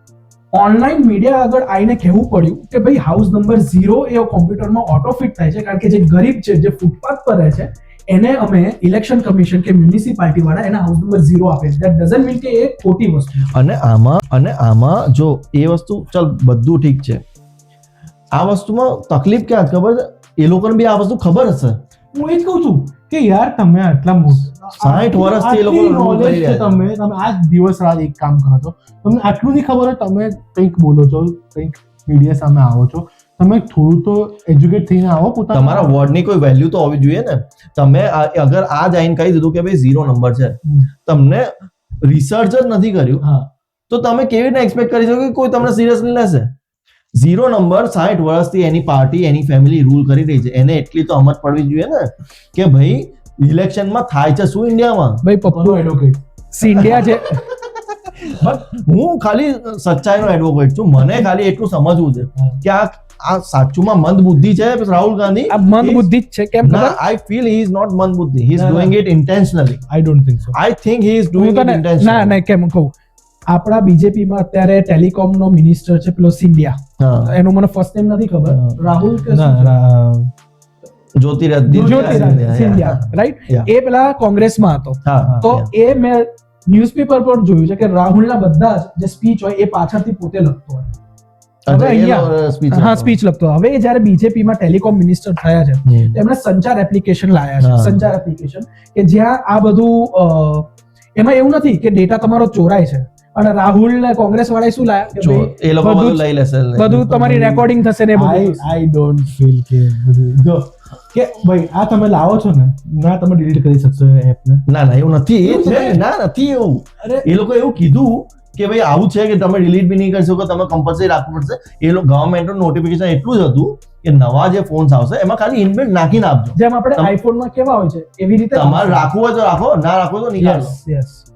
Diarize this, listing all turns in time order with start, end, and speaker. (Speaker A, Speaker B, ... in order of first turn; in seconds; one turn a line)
Speaker A: 0.5-13.5
Speaker B: 13.5-17.2
Speaker B: 18.3-21.8
Speaker C: 22.1-36.0
Speaker B: 24.8-26.8
Speaker B: 35.5-43.2
Speaker C: 43.2-43.5
Speaker B: 43.9-46.5
Speaker B: 47.1-55.2
Speaker A: 55.2-55.9
Speaker C: 55.5-56.2
Speaker A: 56.5-57.4
Speaker B: 56.6-57.3
Speaker B: 58.6-66.1
Speaker A: 65.5-67.0
Speaker B: 66.6-69.8
Speaker C: 68.6-69.0
Speaker C: 69.9-70.6
Speaker B: 70.5-72.4
Speaker A: 71.3-72.9
Speaker A: 73.5-79.7
Speaker B: 77.0-77.3
Speaker C: 78.5-80.3
Speaker B: 81.2-83.7
Speaker C: 81.7-82.6
Speaker A: 81.7-91.0
Speaker B: 85.0-85.7
Speaker C: 85.2-85.5
Speaker B: 91.7-93.2
Speaker A: 91.7-106.2
Speaker B: 95.9-96.2
Speaker B: 97.6-98.1
Speaker B: 105.2-107.5
Speaker A: 106.8-108.7
Speaker C: 107.2-114.7
Speaker B: 114.7-127.1
Speaker C: 115.4-116.0
Speaker C: 117.0-117.3
Speaker A: 126.6-129.1
Speaker B: 128.5-130.8
Speaker A: 130.4-131.3